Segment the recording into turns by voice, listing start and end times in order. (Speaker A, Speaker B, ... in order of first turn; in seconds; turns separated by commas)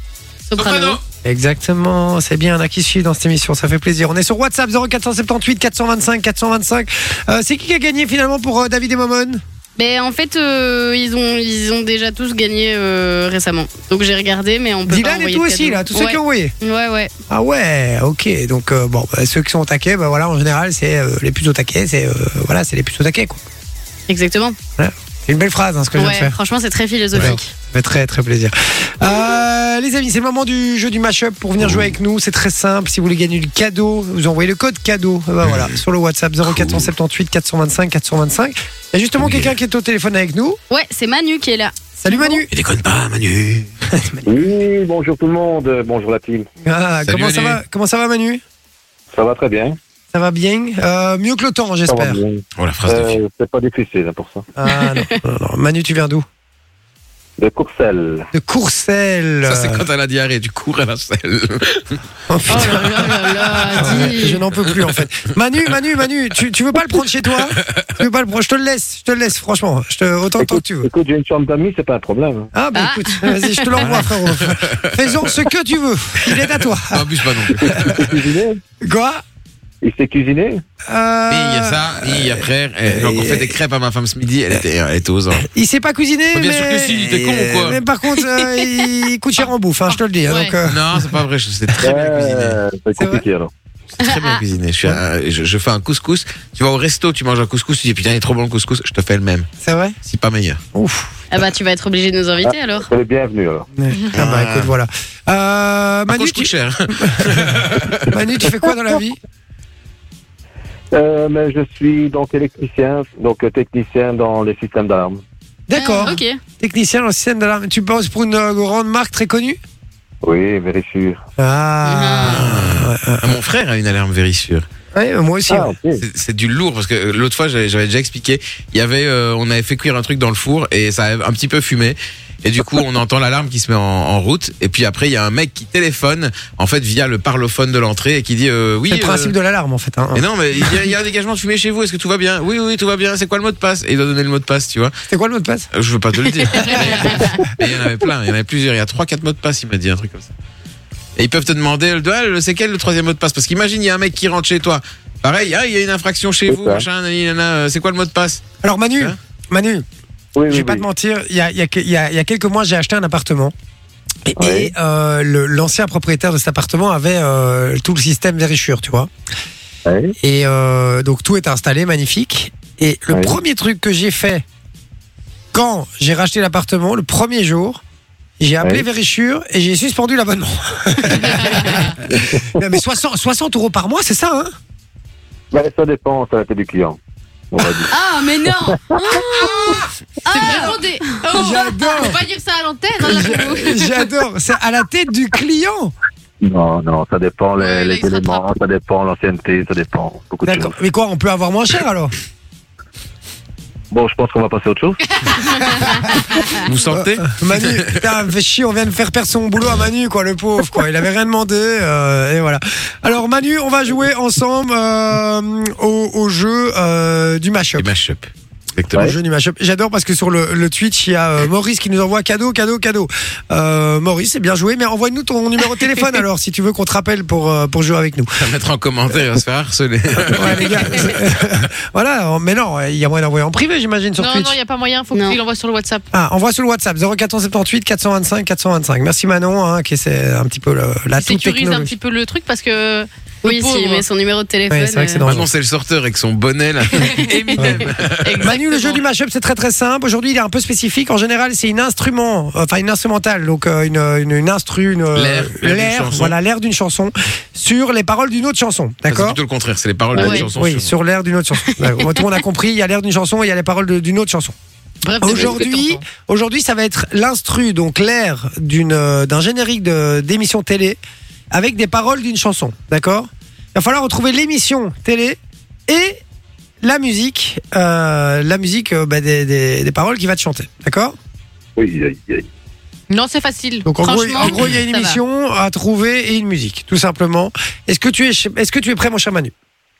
Speaker A: 0.5-1.0, Speaker B: 0.6-1.0, Speaker C: 1.2-9.4, Speaker A: 9.8-17.1, Speaker C: 14.9-16.5, Speaker C: 17.3-23.4, Speaker A: 24.1-24.6, Speaker C: 24.8-26.3, Speaker A: 26.0-27.5, Speaker C: 27.1-40.6, Speaker B: 35.4-35.8, Speaker B: 36.5-36.9, Speaker B: 39.2-39.5, Speaker A: 40.7-42.4, Speaker C: 42.0-42.5, Speaker B: 42.5-43.7, Speaker C: 43.9-44.3, Speaker D: 44.2-46.5, Speaker C: 46.6-48.4, Speaker B: 47.0-47.6, Speaker D: 49.1-49.8, Speaker C: 50.1-52.2, Speaker D: 51.9-54.5, Speaker B: 52.6-53.2, Speaker C: 54.5-56.2, Speaker A: 54.7-55.1, Speaker D: 57.4-58.3, Speaker C: 58.3-59.8, Speaker B: 59.4-62.0, Speaker C: 62.3-63.1, Speaker A: 62.5-64.4, Speaker B: 62.5-63.9, Speaker E: 63.6-64.1, Speaker C: 63.8-70.9, Speaker B: 64.7-65.0, Speaker B: 67.4-67.8, Speaker D: 70.4-72.5, Speaker C: 72.5-78.0, Speaker A: 72.7-73.8, Speaker B: 73.7-75.2, Speaker B: 76.4-78.2, Speaker D: 77.5-78.6, Speaker C: 78.8-79.2, Speaker D: 79.8-80.6, Speaker C: 80.8-83.5, Speaker B: 81.3-85.5, Speaker C: 85.5-91.1, Speaker B: 86.3-87.8, Speaker E: 90.3-90.5, Speaker B: 90.7-92.6, Speaker D: 91.8-93.5, Speaker C: 93.0-93.2, Speaker B: 93.9-99.5, Speaker A: 94.0-94.4, Speaker C: 99.6-100.0, Speaker B: 100.0-100.6, Speaker C: 100.7-101.2, Speaker A: 101.3-102.9, Speaker D: 102.5-103.7, Speaker C: 103.8-109.2, Speaker B: 104.1-104.7, Speaker B: 106.1-108.2, Speaker D: 110.9-115.2, Speaker C: 115.7-119.6, Speaker A: 115.8-116.4, Speaker D: 120.2-121.2, Speaker C: 121.4-123.4, Speaker A: 121.8-122.5, Speaker B: 122.2-124.7, Speaker C: 124.9-125.8, Speaker D: 125.5-126.0, Speaker B: 126.0-139.3, Speaker C: 138.9-140.8, Speaker B: 140.1-144.9, Speaker C: 145.1-145.7, Speaker B: 145.7-150.3, Speaker A: 146.5-147.4, Speaker C: 146.6-147.3, Speaker B: 151.2-158.4, Speaker D: 156.5-156.8, Speaker C: 158.6-159.8, Speaker D: 160.3-160.8, Speaker C: 160.5-163.5, Speaker C: 164.2-169.1, Speaker D: 164.4-164.7, Speaker D: 169.8-170.2, Speaker C: 170.2-174.4, Speaker C: 175.5-177.8, Speaker C: 178.4-184.5, Speaker D: 182.0-182.6, Speaker D: 185.5-187.0, Speaker D: 187.5-187.9, Speaker A: 187.9-191.2, Speaker D: 188.5-189.5, Speaker E: 190.3-194.1, Speaker C: 191.3-192.2, Speaker C: 193.0-195.9, Speaker D: 196.4-200.8, Speaker E: 197.6-198.4, Speaker C: 200.4-202.1, Speaker D: 203.9-205.9, Speaker E: 205.0-206.6, Speaker B: 206.5-208.0, Speaker C: 206.7-217.9, Speaker B: 217.8-219.1, Speaker C: 218.9-228.3, Speaker B: 228.4-231.2, Speaker C: 230.3-234.5, Speaker E: 234.2-236.1, Speaker C: 236.1-241.9, Speaker E: 241.2-244.0, Speaker A: 243.4-245.2, Speaker C: 244.7-245.5, Speaker B: 245.2-248.5, Speaker E: 246.9-249.0, Speaker C: 247.6-259.4, Speaker B: 255.1-256.3, Speaker B: 259.1-260.9, Speaker D: 260.1-260.4, Speaker A: 260.2-260.4, Speaker C: 260.3-264.6, Speaker A: 261.7-262.4, Speaker E: 265.0-266.0, Speaker C: 265.2-271.0, Speaker C: 271.5-276.2, Speaker C: 276.8-281.1, Speaker D: 281.8-282.5, Speaker E: 283.1-285.2, Speaker C: 283.9-289.5, Speaker A: 284.0-284.6